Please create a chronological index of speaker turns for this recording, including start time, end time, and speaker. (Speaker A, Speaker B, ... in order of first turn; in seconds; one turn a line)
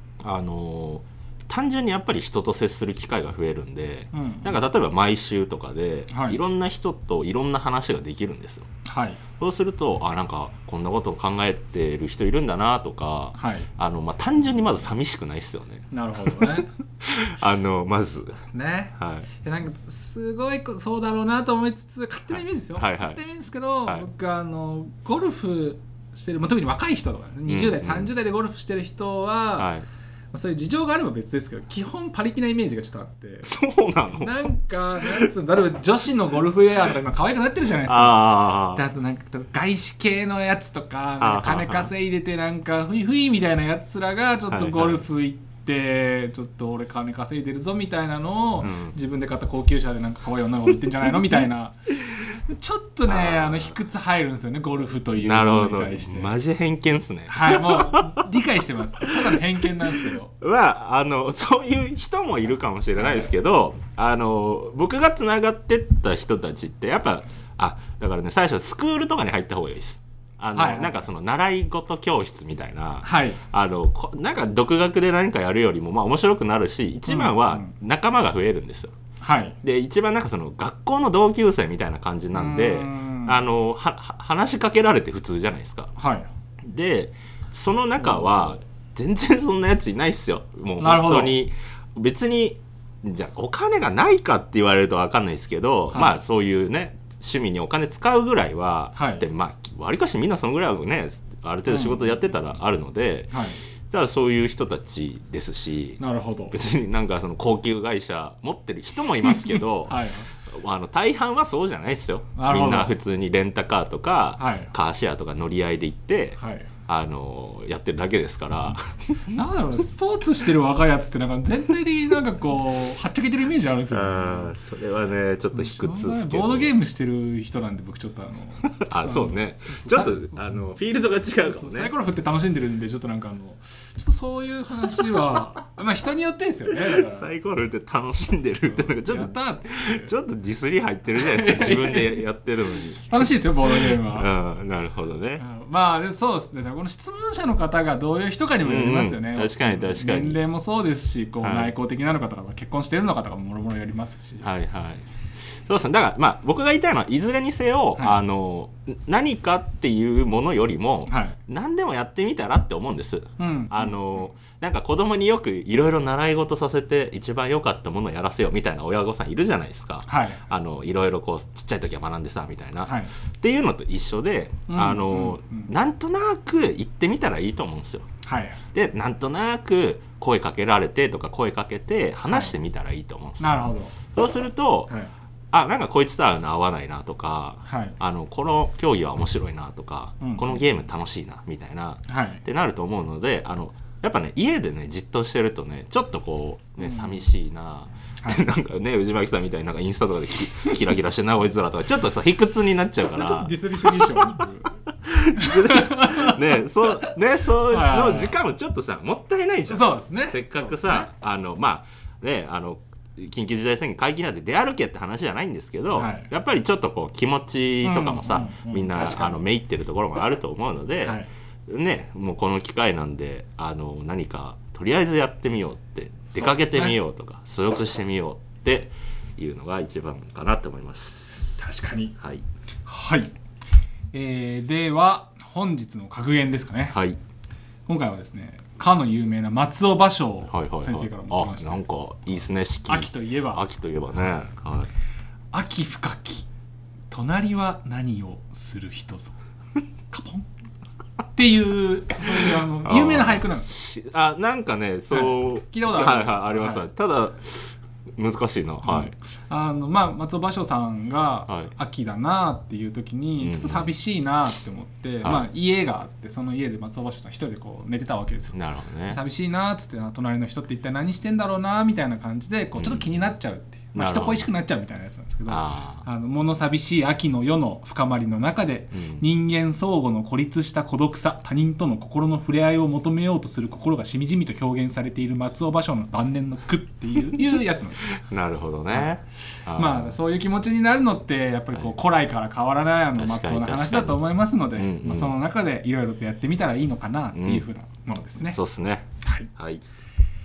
Speaker A: 0.2-8.7
Speaker B: 4.1-4.6
Speaker B: 6.1-6.4
Speaker B: 8.8-9.2
Speaker A: 9.4-18.4
Speaker B: 13.4-13.7
Speaker B: 15.9-16.7
Speaker B: 18.4-29.7
Speaker A: 19.0-19.3
Speaker A: 22.8-23.2
Speaker A: 27.5-28.1
Speaker A: 29.6-29.9
Speaker B: 30.3-33.5
Speaker A: 33.4-34.4
Speaker B: 34.1-56.3
Speaker A: 35.0-35.3
Speaker A: 37.8-38.8
Speaker A: 41.2-41.9
Speaker A: 44.5-45.0
Speaker A: 48.6-48.9
Speaker A: 53.0-53.7
Speaker A: 55.1-58.2
Speaker B: 57.3-60.3
Speaker A: 59.0-59.3
Speaker A: 59.9-78.9
Speaker B: 63.0-63.3
Speaker B: 70.5-71.0
Speaker B: 73.0-73.4
Speaker B: 77.1-77.7
Speaker B: 79.2-79.6
Speaker A: 79.6-85.9
Speaker B: 82.3-83.4
Speaker B: 86.0-86.3
Speaker A: 86.6-103.3
Speaker B: 90.8-91.4
Speaker B: 98.9-99.2
Speaker B: 101.7-102.0
Speaker B: 103.3-103.6
Speaker A: 103.9-119.4
Speaker B: 106.0-106.5
Speaker B: 109.3-110.3
Speaker B: 112.3-113.0
Speaker B: 114.4-114.7
Speaker B: 116.4-116.7
Speaker B: 119.3-124.5
Speaker A: 123.9-126.7
Speaker B: 125.5-130.3
Speaker A: 128.6-131.9
Speaker B: 131.4-137.3
Speaker A: 136.9-145.4
Speaker B: 138.6-140.1
Speaker B: 141.1-142.2
Speaker B: 143.1-144.3
Speaker B: 145.4-154.5
Speaker A: 148.6-150.4
Speaker A: 151.4-151.7
Speaker A: 154.4-155.0
Speaker A: 155.7-178.1
Speaker B: 157.9-158.2
Speaker B: 161.1-161.4
Speaker B: 163.4-163.9
Speaker B: 170.1-170.4
Speaker B: 172.8-173.1
Speaker B: 174.7-175.7
Speaker B: 178.2-178.6
Speaker A: 178.7-183.6
Speaker B: 182.3-182.5
Speaker B: 183.4-183.9
Speaker A: 184.1-184.9
Speaker A: 185.5-204.4
Speaker B: 187.7-188.0
Speaker B: 190.2-190.6
Speaker B: 192.1-192.4
Speaker B: 196.8-197.2
Speaker B: 203.1-204.7
Speaker A: 205.1-231.6
Speaker B: 205.3-207.1
Speaker B: 207.7-208.3
Speaker B: 209.7-211.1
Speaker B: 215.9-216.3
Speaker B: 217.8-219.4
Speaker B: 221.0-221.3
Speaker B: 226.3-227.0
Speaker B: 231.6-232.1
Speaker A: 232.2-232.4
Speaker B: 232.8-233.3
Speaker B: 234.1-237.0
Speaker A: 236.9-237.2
Speaker B: 237.9-241.8
Speaker A: 240.5-244.9
Speaker B: 242.9-243.6
Speaker B: 245.5-246.5
Speaker B: 247.1-249.4
Speaker B: 250.1-250.5
Speaker B: 251.3-253.7
Speaker A: 252.8-259.1
Speaker B: 255.1-256.9
Speaker B: 258.8-268.6
Speaker A: 263.4-263.9
Speaker A: 268.5-269.2
Speaker B: 269.1-288.1
Speaker A: 272.7-273.1
Speaker A: 273.9-274.5
Speaker A: 275.5-276.0
Speaker A: 278.9-279.2
Speaker A: 288.2-290.2
Speaker B: 289.7-298.6
Speaker A: 293.1-295.3
Speaker A: 297.3-297.6
Speaker A: 298.5-299.8
Speaker B: 299.2-299.5